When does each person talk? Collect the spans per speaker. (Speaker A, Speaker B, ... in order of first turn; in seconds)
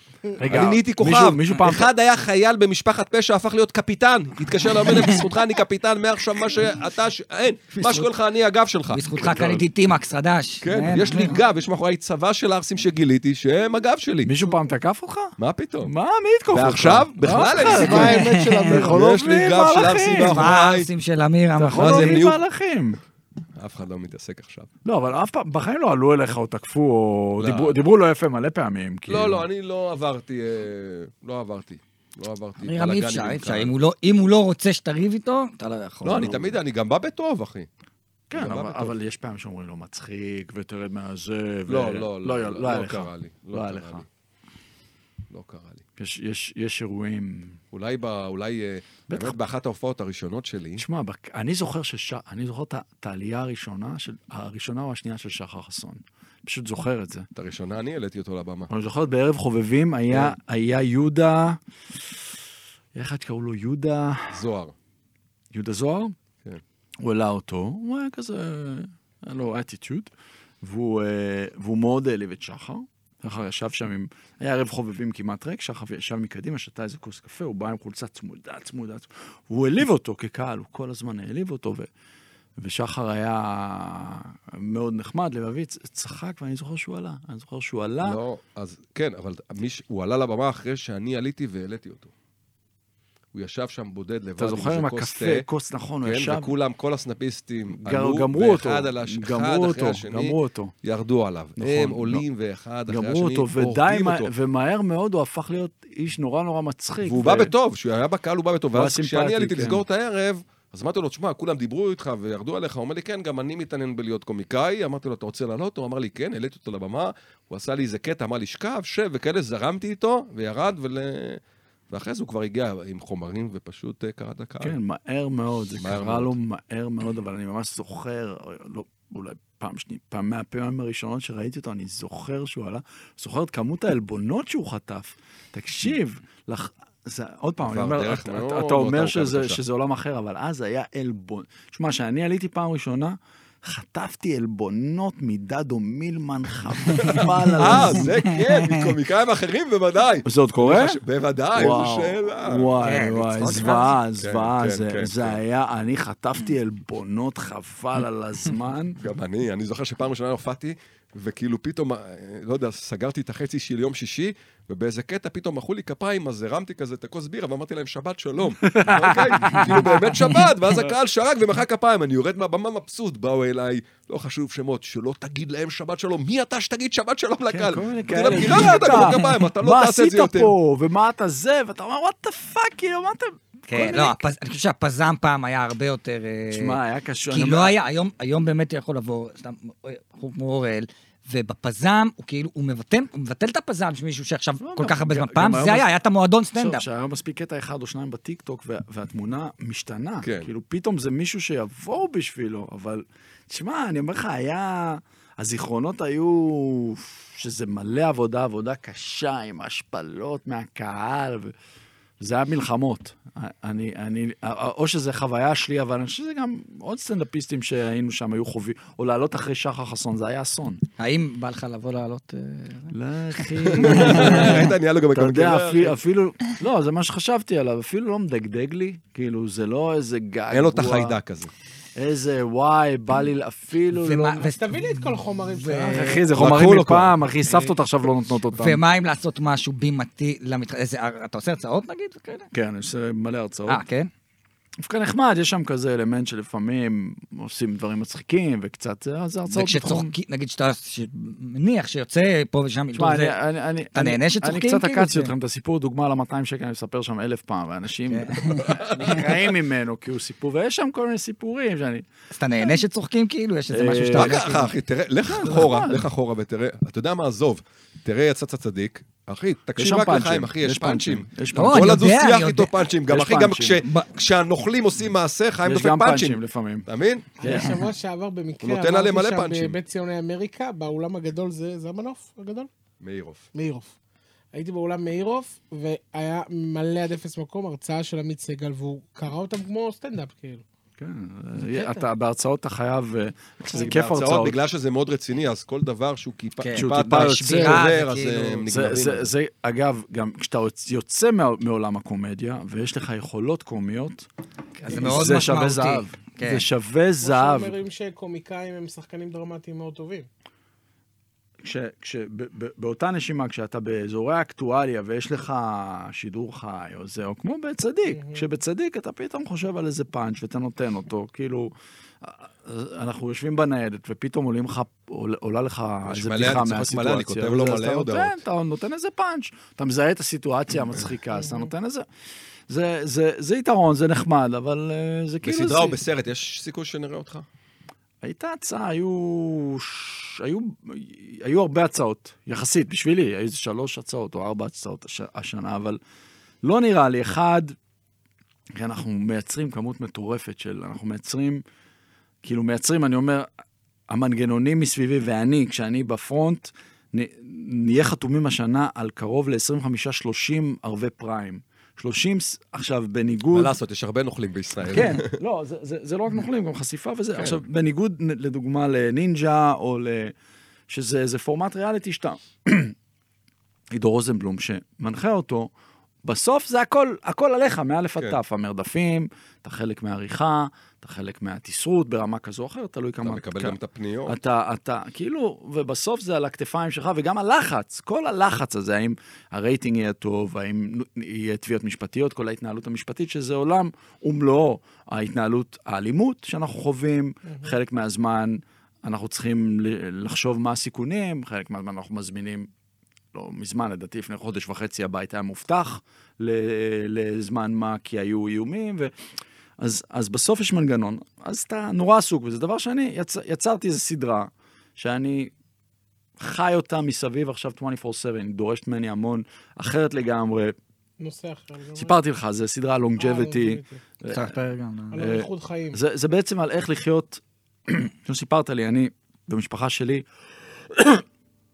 Speaker A: 0.4-1.9, 9.2-9.6, 14.2-20.5, 21.6-23.0, 24.8-29.5, 38.3-44.0, 46.0-47.6, 49.1-49.4, 50.8-57.3, 58.7-62.3, 63.0-64.4, 65.5-66.2, 67.0-70.1, 70.6-81.9, 82.6-88.2, 94.4-96.5, 97.7-100.7, 101.6-102.2, 102.9-107.5, 108.7-109.8, 124.6-148.1, 150.3-151.0, 151.5-159.0, 168.6-170.0, 177.5-184.2, 186.5-187.8, 194.6-195.9, 196.6-211.5, 212.2-220.8, 222.9-231.2, 232.0-234.5, 235.8-238.8, 242.5-243.8, 244.8-250.1, 252.9-262.1, 263.7-264.4, 265.3-266.1, 269.8-272.1, 273.1-273.8, 275.6-276.9, 277.4-277.7, 291.0-294.6, 296.7-297.8, 298.7-304.3, 304.9-307.8, 311.6-332.1, 332.7-336.0, 338.2-346.0, 346.6-347.8, 348.7-351.6, 352.4-353.5, 354.1-363.7, 364.9-370.3, 370.9-372.9, 373.9-375.7, 376.2-402.7, 403.3-409.1, 409.8-415.5, 416.4-420.8, 421.9-424.6, 425.2-430.2, 430.9-431.2
Speaker B: 0.5-9.5, 10.6-14.3, 15.4-15.9, 16.5-20.9, 21.8-22.4, 23.6-24.7, 27.4-27.8, 29.1-33.7, 36.0-37.7, 38.3-39.0, 41.7-44.1, 45.3-45.8, 47.7-50.8, 57.4-58.7, 60.1-60.4, 64.3-64.7, 88.0-92.1, 93.3-95.5, 96.0-104.3, 107.0-124.8, 125.8-126.3, 137.6-139.6, 146.9-152.7, 154.2-155.4, 159.0-180.5, 200.2-200.5, 223.7-226.0, 230.5-231.5, 236.3-237.2, 258.7-259.3, 264.1-277.3, 278.6-279.8, 283.0-283.5, 293.7-299.3, 326.1-328.4, 335.4-337.5, 363.5-365.3, 383.2-384.4
Speaker C: 4.9-5.2, 8.9-11.4, 17.9-18.7, 20.1-22.2, 32.6-36.5, 147.6-148.9, 152.8-154.0, 183.7-196.8, 221.0-222.9, 223.7-224.6, 233.9-236.2, 238.5-242.5, 243.7-244.1, 249.5-253.4, 253.9-255.3, 258.1-259.2, 262.3-264.7, 271.6-272.8, 296.6-298.6, 304.8-306.7, 424.3-425.2
Speaker D: 17.6-19.0, 234.4-236.3, 277.4-282.7, 283.6-283.9, 284.5-290.6, 304.9-305.3, 307.2-310.3, 318.1-318.5, 331.4-331.7, 397.5-397.8, 421.2-422.2, 423.2-424.0, 425.1-426.0